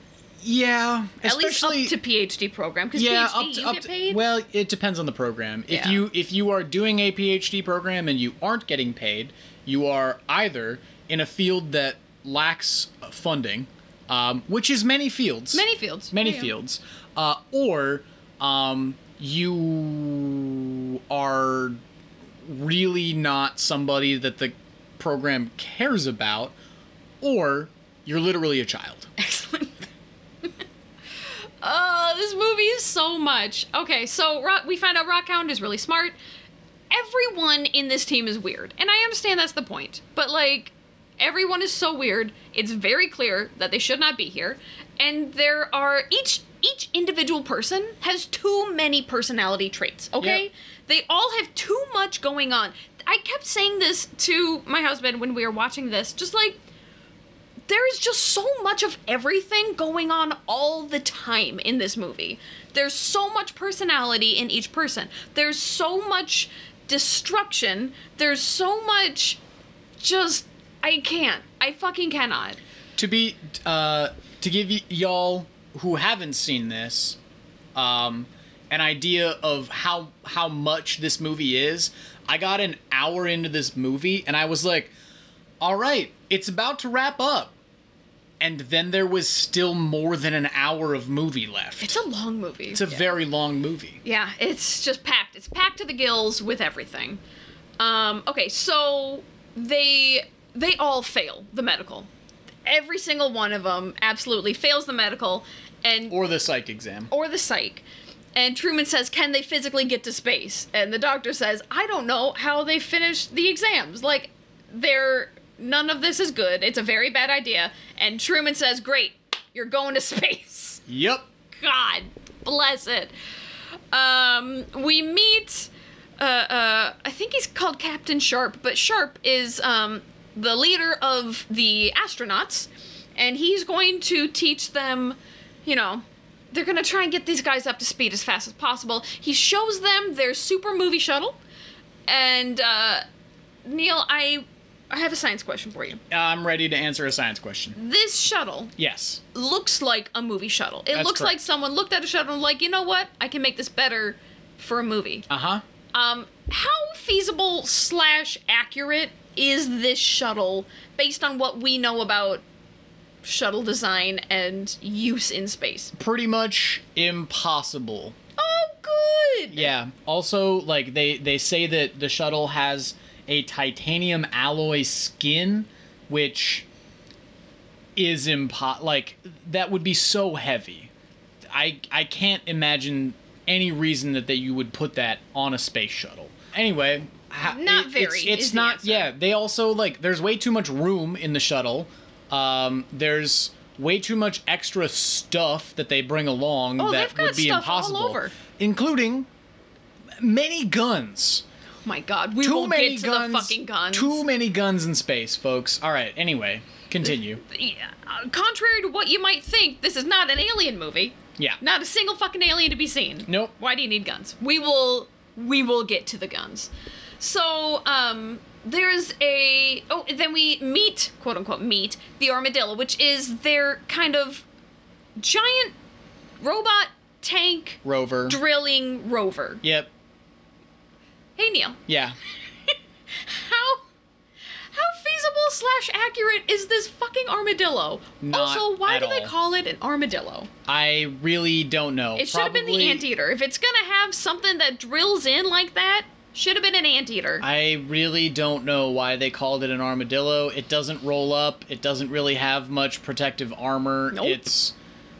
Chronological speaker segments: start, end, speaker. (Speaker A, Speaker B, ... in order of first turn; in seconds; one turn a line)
Speaker A: 0.4-1.9
Speaker B: 1.2-4.2
Speaker A: 2.9-21.8
Speaker B: 5.7-6.0
Speaker B: 15.5-16.5
Speaker A: 22.4-26.5
Speaker A: 27.2-29.1
Speaker B: 29.2-29.9
Speaker B: 31.6-36.1
Speaker B: 36.9-56.6
Speaker A: 50.2-50.4
Speaker B: 57.7-69.4
Speaker B: 70.0-72.6
Speaker A: 73.0-77.2
Speaker A: 77.7-84.9
Speaker A: 85.6-87.5
Speaker A: 88.4-92.0
Speaker B: 91.8-93.2
Speaker A: 92.7-94.0
Speaker B: 94.0-97.2
Speaker B: 97.8-102.1
Speaker B: 102.7-106.2
Speaker A: 106.1-107.1
Speaker B: 107.1-107.8
Speaker B: 108.3-120.8
Speaker A: 120.9-121.2
Speaker B: 121.6-123.1
Speaker B: 123.9-141.4
Speaker B: 142.1-143.0
Speaker B: 143.7-146.0
Speaker A: 146.1-147.8
Speaker B: 147.7-148.7
Speaker A: 148.8-149.2
Speaker B: 149.3-155.2
Speaker A: 150.9-151.4
Speaker A: 155.3-155.6
Speaker B: 155.9-162.4
Speaker B: 163.2-165.9
Speaker A: 165.9-168.1
Speaker B: 168.4-169.7
Speaker A: 169.5-176.7
Speaker A: 177.9-180.9
Speaker A: 181.5-199.3
Speaker B: 187.4-189.1
Speaker B: 196.8-198.3
Speaker A: 200.2-201.4
Speaker B: 201.8-204.2
Speaker A: 202.4-207.4
Speaker B: 207.1-224.4
Speaker A: 213.3-213.5
Speaker B: 225.2-225.7
Speaker B: 226.4-229.6
Speaker A: 227.8-228.4
Speaker A: 229.6-229.9
Speaker B: 231.4-231.8
Speaker A: 231.9-232.2
Speaker B: 232.7-233.8
Speaker B: 234.7-240.5
Speaker A: 238.2-239.3
Speaker A: 240.7-243.1
Speaker B: 242.2-247.4
Speaker A: 247.4-254.7
Speaker B: 254.1-254.4